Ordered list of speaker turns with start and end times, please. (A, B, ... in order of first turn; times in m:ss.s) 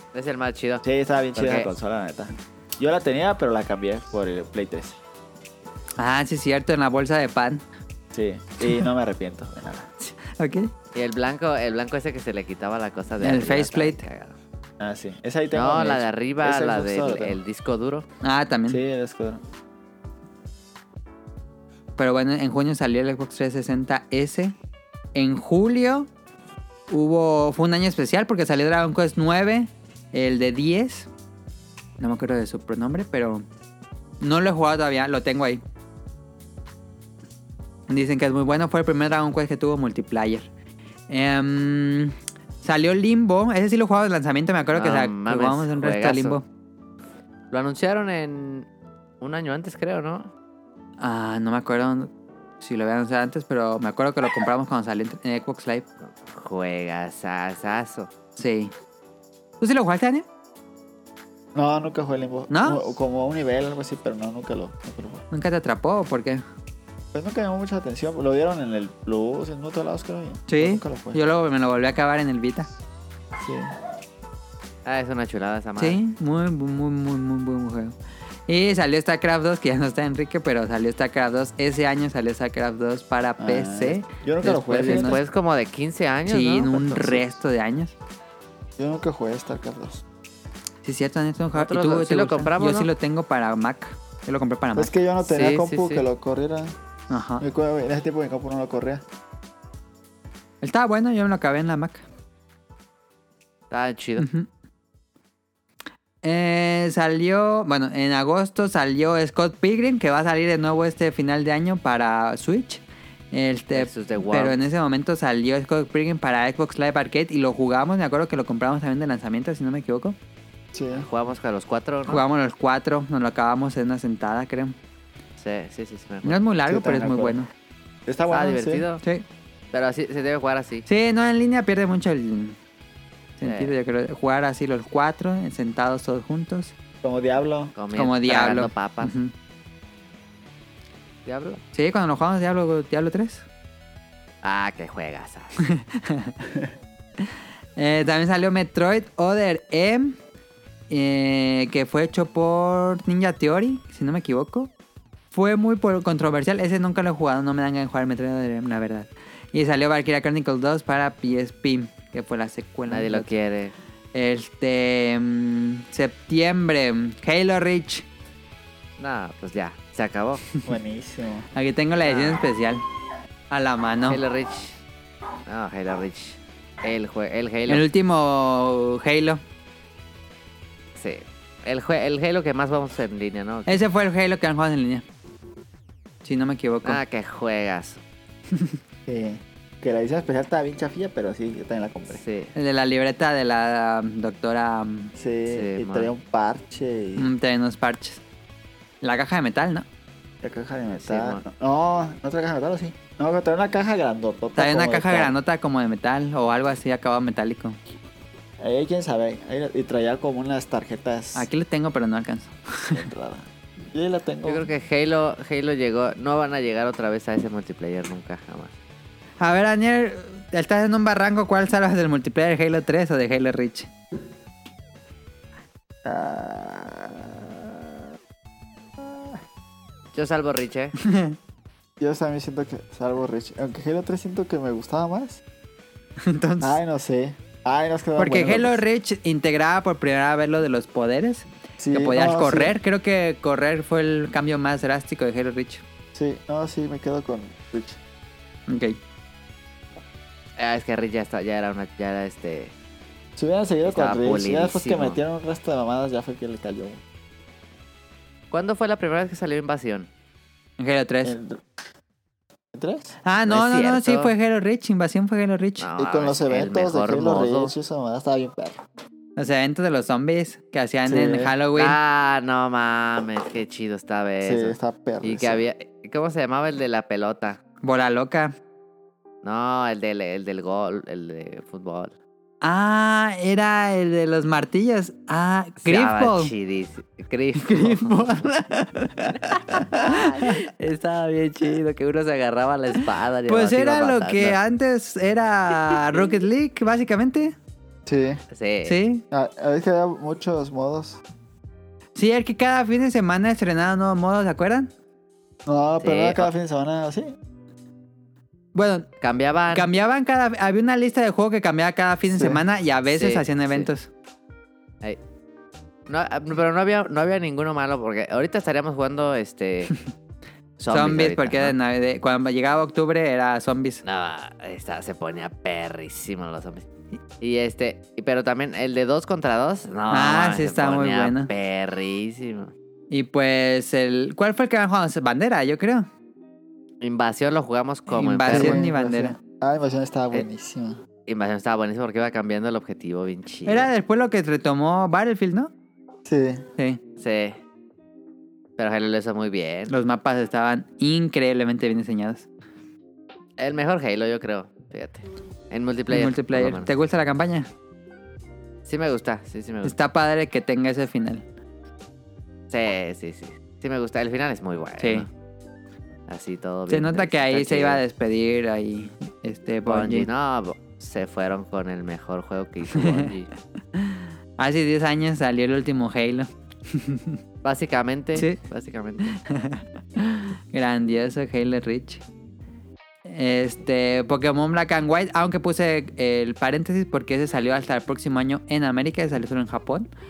0:00.1-0:00.8 A
0:00.8-0:05.0 B
0:01.4-0:01.7 A
0:06.0-0:07.6 C
0:08.1-0:09.9 B
0:08.6-0:08.9 C
0:10.0-0:10.7 C
0:11.0-0:14.4 A
0:13.2-0:14.0 C
0:14.8-0:17.4 B
0:15.5-0:18.1 A
0:18.2-0:18.8 C
0:18.7-0:19.4 B
0:22.0-0:24.6 C
0:25.2-0:26.1 C
0:26.9-0:31.1 C
0:32.0-0:33.4 C
0:34.2-0:35.6 C
0:37.9-0:40.5 C
0:41.1-0:46.4 C
0:44.7-0:46.4 A
0:47.5-0:48.7 A
0:49.2-0:50.3 A
0:51.0-0:55.9 C
0:56.0-0:58.1 A
0:58.4-0:58.7 C
0:59.6-1:00.3 C
1:01.5-1:05.2 B
1:02.5-1:02.8 C
1:05.3-1:06.4 C
1:07.1-1:11.2 B
1:10.5-1:12.7 C
1:13.4-1:13.7 B
1:14.8-1:16.0 A
1:15.8-1:17.9 C
1:18.5-1:25.2 C
1:23.4-1:25.2 B
1:24.5-1:27.3 A
1:26.3-1:27.9 C
1:28.8-1:30.0 B
1:30.8-1:34.9 C
1:31.6-1:32.9 A
1:34.8-1:36.7 B
1:35.2-1:36.0 A
1:37.1-1:37.4 C
1:37.4-1:39.0 B
1:40.6-1:42.0 C
1:43.7-1:44.3 A
1:44.2-1:44.5 C
1:46.2-2:00.2 C
1:53.7-1:54.6 A
2:00.7-2:01.1 B
2:00.9-2:02.2 A
2:02.1-2:04.8 C
2:05.4-2:06.4 A
2:06.2-2:07.5 C
2:06.7-2:07.4 B
2:08.1-2:08.8 B
2:08.3-2:09.0 A
2:09.7-2:10.9 A
2:10.9-2:12.6 C
2:13.4-2:16.7 C
2:13.4-2:13.7 A
2:17.0-2:17.7 B
2:17.8-2:19.1 A
2:18.0-2:19.3 C
2:21.3-2:21.6 A
2:21.7-2:23.5 C
2:24.4-2:25.5 A
2:25.6-2:26.3 C
2:26.5-2:26.7 B
2:27.8-2:30.2 C
2:30.9-2:34.7 C
2:35.3-2:43.3 C
2:42.9-2:43.7 A
2:44.1-2:48.0 C
2:49.0-2:50.4 A
2:50.6-2:51.5 B
2:51.5-2:52.8 C
2:52.1-2:52.5 A
2:53.5-2:54.2 C
2:54.1-2:54.8 A
2:55.5-2:57.8 A
2:57.7-2:59.4 C
3:01.0-3:03.8 A
3:03.7-3:05.0 C
3:06.2-3:07.0 C
3:06.8-3:08.0 A
3:09.1-3:12.2 B
3:12.1-3:12.5 A
3:12.6-3:15.1 C
3:15.2-3:17.3 B
3:15.5-3:16.1 A
3:17.2-3:18.2 C
3:19.0-3:19.9 C
3:20.4-3:25.4 B
3:21.0-3:21.4 A
3:24.6-3:27.8 C
3:28.6-3:31.5 B
3:31.4-3:33.1 C
3:32.9-3:34.7 B
3:34.4-3:38.7 A
3:39.4-3:43.9 C
3:46.0-3:48.1 B
3:49.0-3:49.4 B
3:50.1-3:51.0 A
3:51.0-3:51.4 C
3:52.0-3:55.4 B
3:56.2-3:56.8 C
3:56.6-3:58.8 B
3:58.2-4:05.8 C
4:01.8-4:02.7 B
4:06.2-4:08.0 B
4:08.7-4:09.0 C
4:10.6-4:12.7 A
4:13.4-4:17.0 B
4:13.9-4:15.2 A
4:18.5-4:20.1 A
4:20.8-4:21.4 C
4:21.2-4:21.6 B
4:22.7-4:23.2 B
4:23.2-4:25.9 C
4:23.5-4:24.4 A
4:25.8-4:27.7 A
4:26.0-4:28.8 B
4:29.4-4:32.0 C
4:31.1-4:31.5 B
4:31.8-4:37.6 A
4:34.4-4:35.6 B
4:37.8-4:38.6 C
4:39.4-4:42.1 A
4:42.6-4:46.5 C
4:45.8-4:48.3 A
4:47.6-4:50.6 C
4:49.4-4:54.6 A
4:53.5-4:57.6 C
4:55.9-4:56.2 A
4:58.1-4:58.4 B
4:58.5-4:59.0 A
4:58.9-4:59.2 C
4:59.3-5:01.2 B
5:02.2-5:04.9 C
5:05.7-5:07.4 B
5:06.0-5:06.5 A
5:08.8-5:09.1 C
5:09.2-5:09.9 A
5:09.7-5:14.1 C
5:12.3-5:12.6 B
5:13.1-5:13.9 A
5:16.1-5:20.0 A
5:20.8-5:21.8 A
5:20.9-5:24.0 C
5:24.0-5:26.9 A
5:27.4-5:32.7 A
5:30.1-5:31.5 C
5:33.1-5:36.1 C
5:37.0-5:38.8 A
5:38.1-5:39.4 C
5:38.5-5:41.0 B
5:41.3-5:43.9 A
5:43.7-5:45.7 C
5:46.2-5:46.6 B
5:47.2-5:47.6 A
5:48.8-5:49.9 A
5:49.9-5:52.5 C
5:53.6-5:56.9 A
5:56.1-5:57.7 C
5:58.9-6:00.0 A
5:59.8-6:01.4 C
6:02.7-6:05.3 A
6:05.0-6:05.3 C
6:06.3-6:08.0 A
6:06.9-6:10.3 C
6:09.9-6:13.5 A
6:13.0-6:13.3 C
6:14.0-6:17.4 C
6:17.6-6:19.4 A
6:19.3-6:22.2 C
6:23.2-6:30.1 C